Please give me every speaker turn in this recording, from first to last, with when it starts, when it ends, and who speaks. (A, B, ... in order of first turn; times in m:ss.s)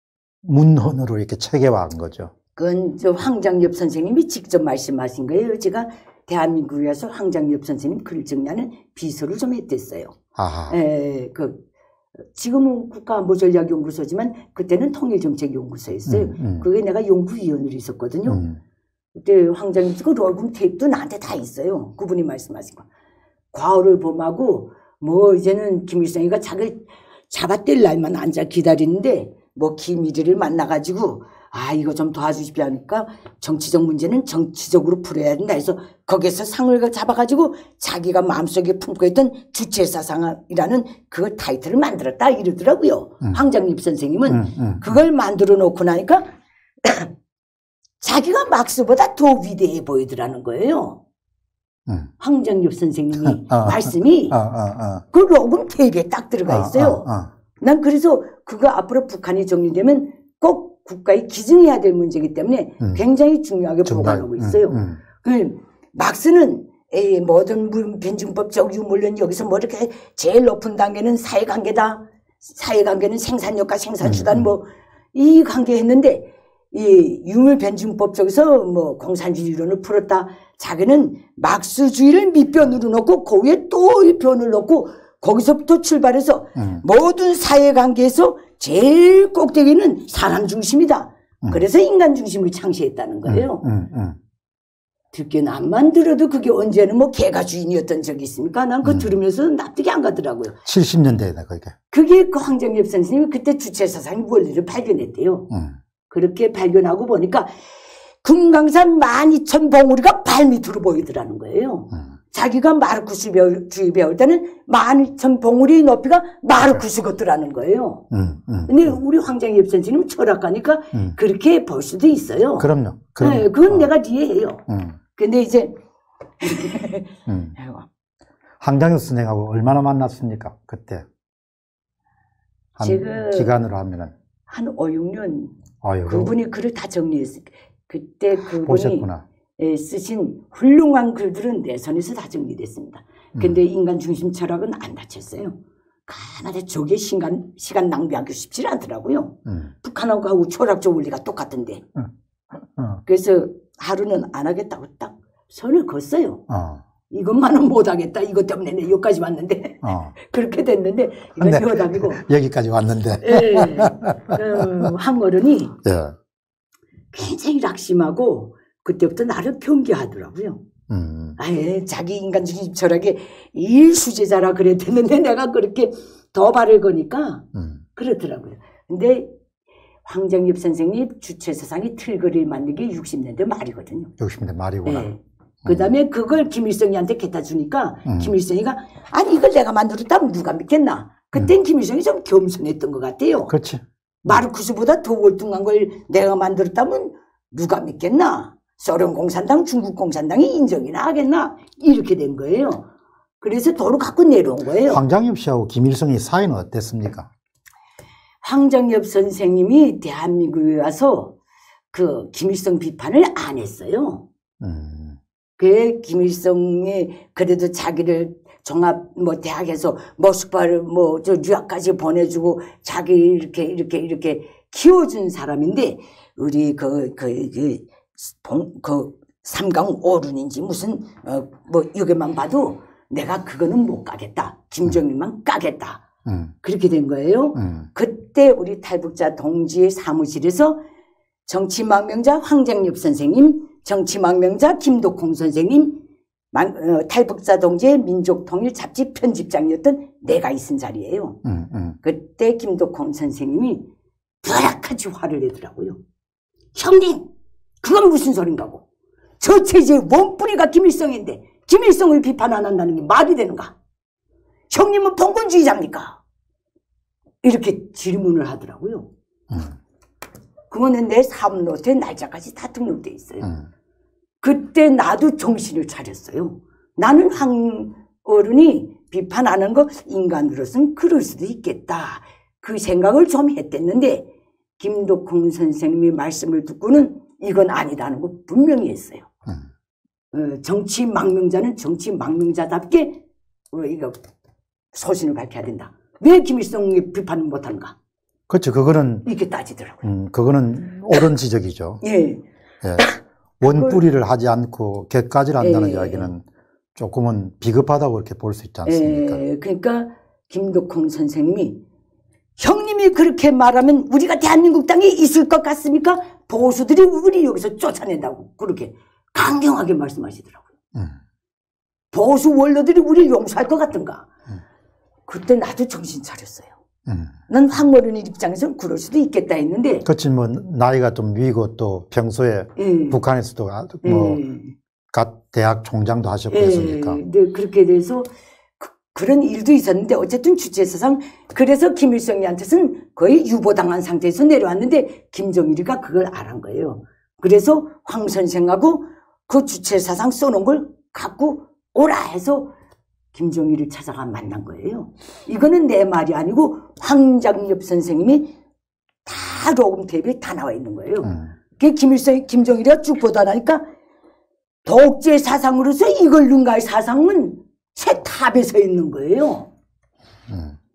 0:00.4-0:02.3 A
0:02.6-0:10.1 B
0:10.4-0:10.7 A
0:10.7-0:11.6 B
0:12.3-0:18.4 B
0:16.1-0:16.6 A
0:18.3-0:18.6 A
0:19.2-0:22.8 B
0:23.5-0:46.2 B
0:44.3-0:44.8 A
0:46.8-0:47.1 B
0:48.0-0:51.0 B
0:52.2-0:54.4 B
0:53.2-0:55.0 A
0:55.1-0:57.1 B
0:56.5-0:57.3 A
0:57.6-1:33.6 B
1:03.8-1:05.0 A
1:14.0-1:14.5 A
1:33.2-1:34.2 A
1:35.1-1:40.5 B
1:38.8-1:39.1 A
1:40.6-1:41.7 A
1:41.9-1:45.5 B
1:46.1-1:47.5 B
1:48.2-1:58.0 B
1:58.1-1:58.9 A
1:58.7-2:02.7 B
2:02.6-2:03.9 A
2:03.2-2:04.6 B
2:04.7-2:04.9 A
2:05.2-2:05.7 B
2:06.4-2:07.8 B
2:07.3-2:07.5 A
2:08.6-2:11.0 A
2:12.8-2:14.1 A
2:12.8-2:13.5 B
2:14.5-2:15.5 B
2:15.8-2:16.3 A
2:16.0-2:31.8 B
2:18.6-2:19.2 A
2:32.8-2:33.0 A
2:33.0-2:36.4 B
2:36.5-2:36.8 A
2:37.1-2:42.2 B
2:39.8-2:40.1 A
2:41.4-2:44.9 A
2:43.2-2:45.7 B
2:45.8-2:46.1 A
2:47.1-2:50.6 B
2:50.9-2:51.4 A
2:51.4-2:57.4 B
2:57.5-2:57.8 A
2:58.0-2:59.3 B
3:00.0-3:04.1 B
3:04.2-3:05.1 A
3:04.8-3:13.5 B
3:05.6-3:05.9 A
3:08.0-3:08.3 A
3:13.5-3:14.4 A
3:14.2-3:22.8 B
3:23.4-3:25.0 B
3:24.8-3:27.3 A
3:28.4-3:31.3 B
3:31.9-3:34.2 B
3:34.6-3:35.2 A
3:35.6-3:56.0 B
3:56.2-3:56.5 A
3:56.6-4:00.8 B
3:57.6-3:57.9 A
4:01.5-4:06.0 B
4:06.5-4:11.4 B
4:11.4-4:12.0 A
4:12.0-4:13.8 B
4:14.4-4:16.0 B
4:16.7-4:17.2 B
4:17.8-4:18.8 B
4:19.4-4:23.7 B
4:24.7-4:26.2 B
4:27.4-4:29.1 B
4:30.7-4:33.5 B
4:34.4-4:44.2 B
4:44.8-4:49.3 B
4:50.3-4:53.2 B
4:53.7-4:54.2 B
4:54.9-4:57.9 B
4:58.5-4:59.2 A
4:59.2-5:00.0 B
5:00.0-5:02.0 A
5:02.0-5:02.4 B
5:02.8-5:06.4 A
5:03.7-5:04.0 B
5:05.6-5:06.3 B
5:07.0-5:09.4 A
5:08.8-5:11.8 B
5:12.6-5:20.6 B
5:22.1-5:24.3 B
5:25.3-5:26.7 B
5:27.5-5:30.0 B
5:30.0-5:34.4 A
5:32.8-5:33.2 B
5:34.0-5:34.7 B
5:35.1-5:37.2 A
5:36.5-5:38.3 B
5:38.8-5:52.7 B
5:53.3-5:58.5 B
5:59.2-6:03.8 B
6:04.8-6:09.7 B
6:10.5-6:10.7 A